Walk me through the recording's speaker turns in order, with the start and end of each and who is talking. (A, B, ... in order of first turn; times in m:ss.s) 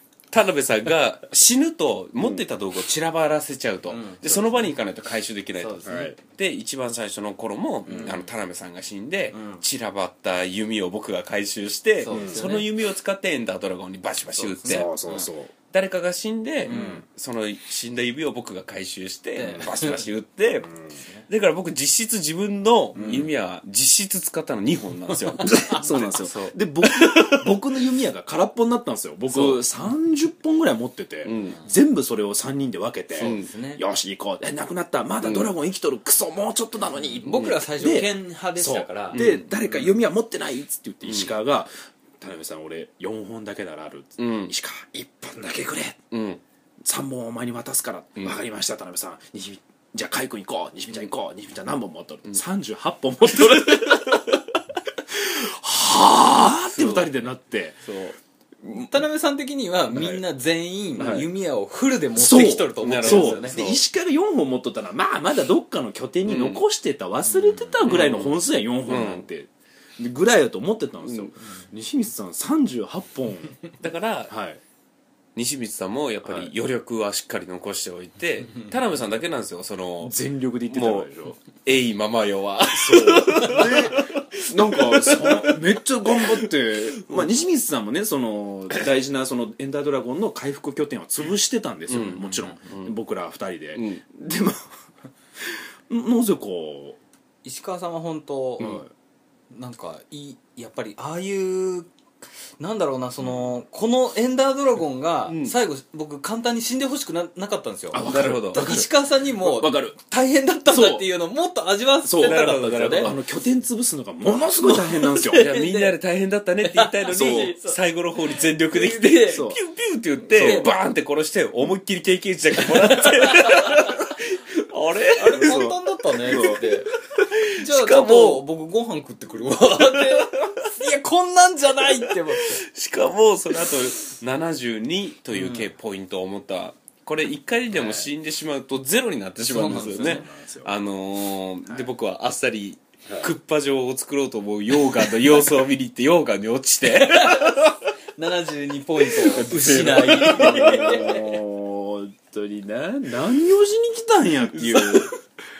0:00.3-0:14.9 A
0:03.9-0:04.4 B
0:05.6-0:06.1 B
0:05.8-0:06.2 C
0:07.9-0:08.2 C
0:07.9-0:08.2 B
0:09.3-0:09.6 B
0:12.0-0:12.7 B
0:12.1-0:12.4 C
0:14.4-0:15.3 B
0:14.6-0:15.5 C
0:15.7-0:20.7 A
0:16.6-0:17.0 B
0:16.7-0:17.0 C
0:19.4-0:20.0 B
0:20.6-0:20.9 C
0:21.3-0:27.5 A
0:22.9-0:23.3 C
0:25.1-0:25.8 B
0:25.4-0:46.0 C
0:31.2-0:31.6 A
0:33.1-0:33.8 B
0:33.2-0:33.4 A
0:35.2-0:35.5 A
0:37.2-0:39.2 B
0:37.3-0:37.6 A
0:39.1-0:39.5 A
0:41.0-0:41.3 A
0:44.2-0:44.5 A
0:46.1-0:46.4 A
0:46.8-0:54.4 C
0:55.1-0:57.8 C
0:56.6-0:57.1 A
0:57.9-0:58.1 A
0:58.6-0:58.9 C
0:58.8-1:03.6 B
0:59.9-1:00.2 C
1:01.0-1:01.3 C
1:02.2-1:13.6 C
1:02.8-1:03.8 A
1:06.2-1:06.6 A
1:07.3-1:07.7 B
1:07.8-1:09.2 A
1:13.8-1:14.3 A
1:14.3-1:14.6 C
1:15.4-1:20.1 A
1:16.2-1:16.5 C
1:20.0-1:21.4 C
1:20.7-1:27.3 A
1:22.7-1:34.6 C
1:31.9-1:33.0 A
1:33.7-1:34.0 A
1:35.4-1:37.0 C
1:37.4-1:38.8 B
1:38.6-1:38.9 C
1:39.5-1:41.9 B
1:42.6-1:53.1 B
1:45.3-1:45.5 A
1:47.9-1:50.0 C
1:48.0-1:48.6 A
1:50.7-1:51.0 C
1:52.0-1:55.4 C
1:52.2-1:53.2 A
1:54.7-1:56.0 B
1:55.3-2:05.7 A
1:56.6-1:57.8 B
1:57.1-1:57.5 C
1:58.3-1:59.4 B
1:59.3-1:59.6 C
2:00.3-2:00.7 B
2:00.3-2:00.7 C
2:02.6-2:04.0 B
2:05.1-2:06.9 B
2:05.3-2:05.7 C
2:06.2-2:06.7 C
2:06.3-2:08.4 A
2:07.5-2:12.6 B
2:09.9-2:10.6 A
2:12.1-2:27.8 A
2:15.3-2:15.7 B
2:17.7-2:18.0 C
2:19.4-2:20.3 B
2:19.6-2:20.7 C
2:26.9-2:27.5 B
2:28.2-2:31.4 B
2:29.1-2:31.2 A
2:30.2-2:35.1 C
2:34.5-2:35.1 A